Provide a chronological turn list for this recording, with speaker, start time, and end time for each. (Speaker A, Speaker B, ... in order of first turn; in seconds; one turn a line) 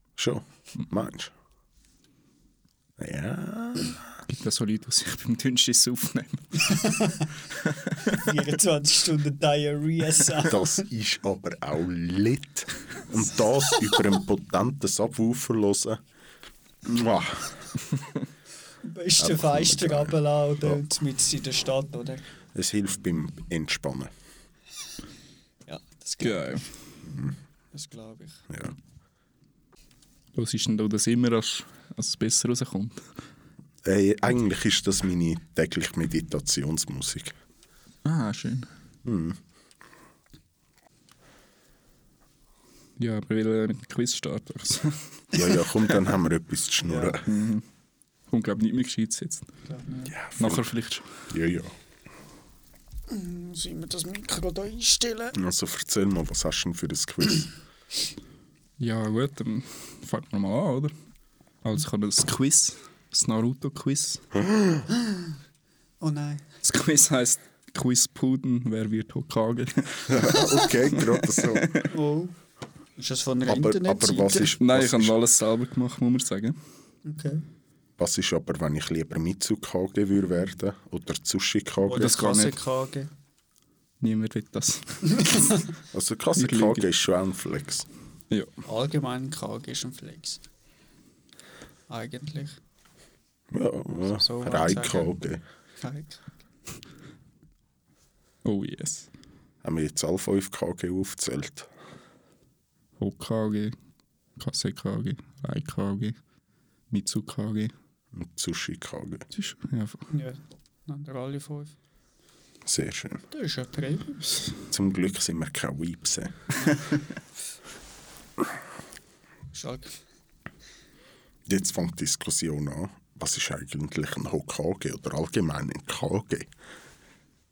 Speaker A: 0.2-1.3
Speaker A: 3.0-4.0
Speaker B: 4.3-6.8
Speaker C: 6.6-7.3
Speaker B: 7.7-8.0
Speaker C: 8.1-10.8
Speaker A: 10.4-16.0
Speaker A: 16.9-17.8
Speaker C: 18.9-22.2
Speaker A: 19.2-20.8
Speaker A: 22.6-24.1
Speaker C: 25.7-26.6
Speaker B: 26.2-26.6
Speaker C: 27.7-28.4
Speaker A: 28.5-28.8
Speaker B: 30.4-33.1
Speaker A: 33.8-37.4
Speaker B: 38.0-38.7
Speaker A: 39.0-39.4
Speaker B: 43.0-45.1
Speaker A: 45.3-47.3
Speaker C: 46.9-47.2
Speaker B: 47.3-47.6
Speaker B: 48.3-49.5
Speaker C: 49.7-50.1
Speaker A: 50.1-50.6
Speaker B: 50.4-51.2
Speaker A: 51.3-51.7
Speaker C: 53.1-55.4
Speaker A: 55.3-57.5
Speaker B: 58.8-60.9
Speaker B: 61.6-64.2
Speaker C: 66.0-66.4
Speaker B: 66.6-70.4
Speaker A: 70.1-71.7
Speaker B: 71.0-71.9
Speaker C: 71.8-72.3
Speaker C: 73.0-74.5
Speaker A: 73.5-75.2
Speaker B: 74.6-76.6
Speaker C: 77.0-77.4
Speaker A: 78.0-82.2
Speaker C: 81.9-83.1
Speaker B: 82.0-82.6
Speaker B: 84.0-85.5
Speaker A: 85.9-87.9
Speaker B: 86.4-86.9
Speaker C: 88.7-90.4
Speaker C: 91.9-92.6
Speaker A: 93.5-95.4
Speaker C: 94.2-95.1
Speaker C: 95.8-96.2
Speaker B: 98.5-99.1
Speaker A: 99.6-101.7
Speaker B: 103.0-103.8
Speaker B: 104.4-106.2
Speaker B: 106.9-107.7
Speaker A: 108.1-109.3
Speaker B: 109.3-110.1
Speaker C: 110.1-111.8
Speaker A: 112.7-113.2
Speaker C: 113.3-114.3
Speaker A: 114.7-116.4
Speaker C: 116.6-116.9
Speaker C: 119.5-120.0
Speaker A: 121.5-126.5